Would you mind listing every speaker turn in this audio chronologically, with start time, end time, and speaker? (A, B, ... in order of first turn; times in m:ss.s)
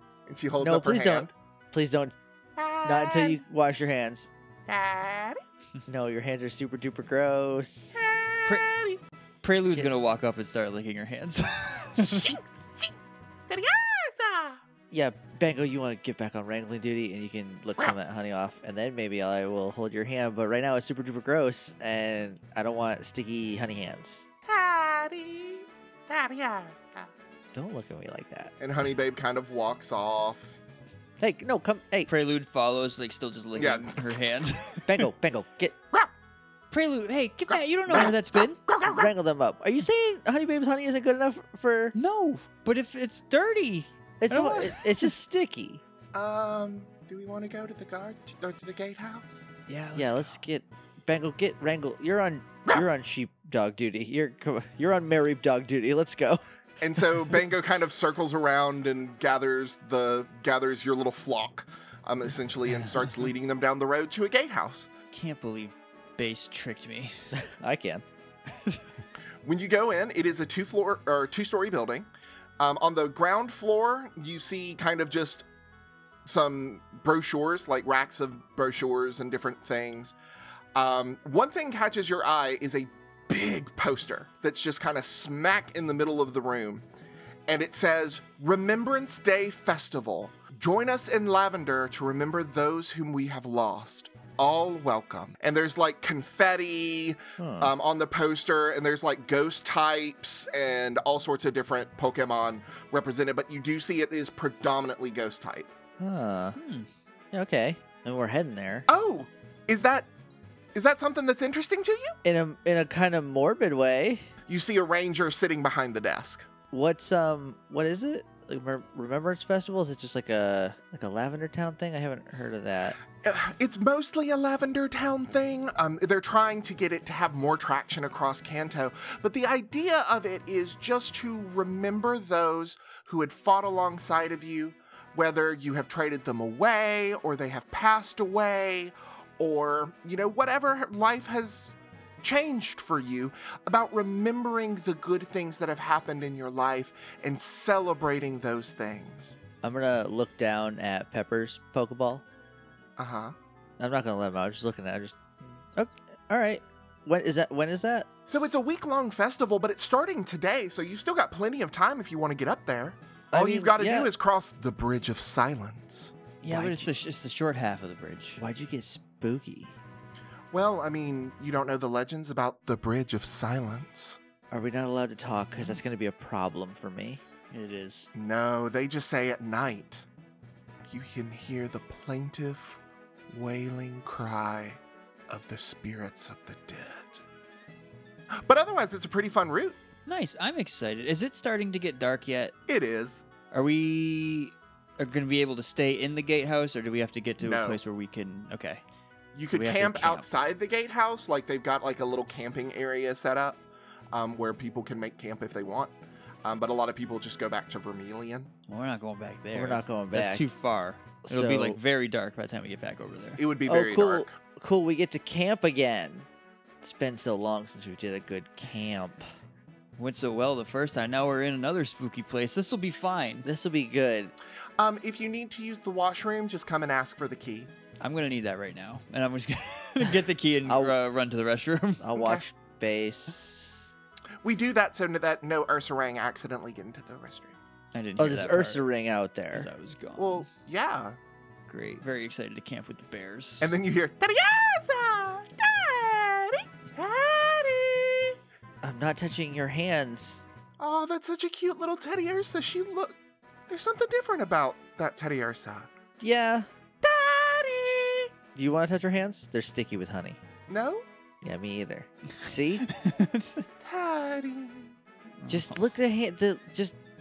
0:00.3-0:01.3 A
0:00.6-0:02.1 B
0:02.6-0:03.4 A
0:02.8-0:04.3 B
0:04.7-0:05.4 A
0:05.9-0:08.0 B
0:08.0-0:09.0 A
0:09.4-0:12.4 C
0:12.0-0:14.6 A
0:14.9-0:24.3 B
0:24.5-0:27.1 A
0:27.5-0:28.5 B
0:28.6-0:30.6 A
0:31.2-0:32.1 B
0:32.1-0:35.1 C
0:33.6-0:34.4 A
0:34.9-0:35.8 B
0:36.7-0:38.6 C
0:37.9-0:38.1 A
0:38.7-0:39.1 A
0:38.9-0:42.0 B
0:42.0-0:45.1 C
0:44.2-0:45.8 B
0:46.1-0:49.5 A
0:49.7-0:50.4 C
0:50.0-0:56.4 B
0:56.8-1:04.9 A
1:05.1-1:07.2 C
1:07.4-1:08.0 B
1:09.4-1:12.1 A
1:12.6-1:15.4 A
1:16.2-1:20.1 A
1:20.7-1:26.9 A
1:27.5-1:45.7 A
1:37.4-1:37.7 B
1:46.0-1:46.6 B
1:46.6-1:46.9 C
1:47.3-1:48.9 B
1:48.9-1:50.1 A
1:50.7-1:52.2 A
1:52.2-1:54.3 B
1:54.5-1:56.5 A
1:56.7-2:03.0 B
2:03.1-2:29.4 A
2:29.6-2:32.2 B
2:33.0-2:33.4 A
2:33.8-2:35.2 B
2:35.8-2:38.1 B
2:38.3-2:46.1 A
2:43.3-2:44.1 B
2:46.4-2:48.4 C
2:46.4-2:46.9 B
2:48.4-2:49.7 B
2:50.5-2:54.2 A
2:54.5-2:57.2 B
2:55.6-2:55.8 C
2:57.5-2:58.1 C
2:58.1-3:00.1 A
3:00.9-3:07.2 A
3:08.3-3:09.8 A
3:10.1-3:12.5 C
3:12.7-3:13.2 A
3:13.5-3:18.8 C
3:17.4-3:17.8 A
3:19.4-3:28.5 A
3:19.5-3:20.3 B
3:28.7-3:33.4 C
3:29.5-3:30.4 B
3:31.2-3:31.8 B
3:33.4-3:34.3 A
3:33.7-3:36.3 B
3:36.8-3:39.2 B
3:40.0-3:43.5 C
3:43.4-3:44.3 B
3:44.8-3:47.7 A
3:48.0-3:52.0 C
3:50.7-3:51.0 B
3:52.0-3:53.9 B
3:52.2-3:52.4 A
3:54.4-3:57.6 A
3:57.9-3:58.8 C
3:58.2-3:59.7 B
3:59.5-4:00.5 C
4:00.2-4:01.2 A
4:01.7-4:03.7 C
4:03.6-4:08.3 A
4:08.8-4:10.4 B
4:10.8-4:13.2 A
4:13.7-4:15.9 A
4:16.2-4:16.7 B
4:17.0-4:18.3 A
4:18.6-4:20.4 B
4:20.7-4:21.1 A
4:21.4-4:22.8 B
4:22.9-4:23.6 C
4:23.8-4:25.0 A
4:25.4-4:25.8 C
4:25.5-4:27.0 B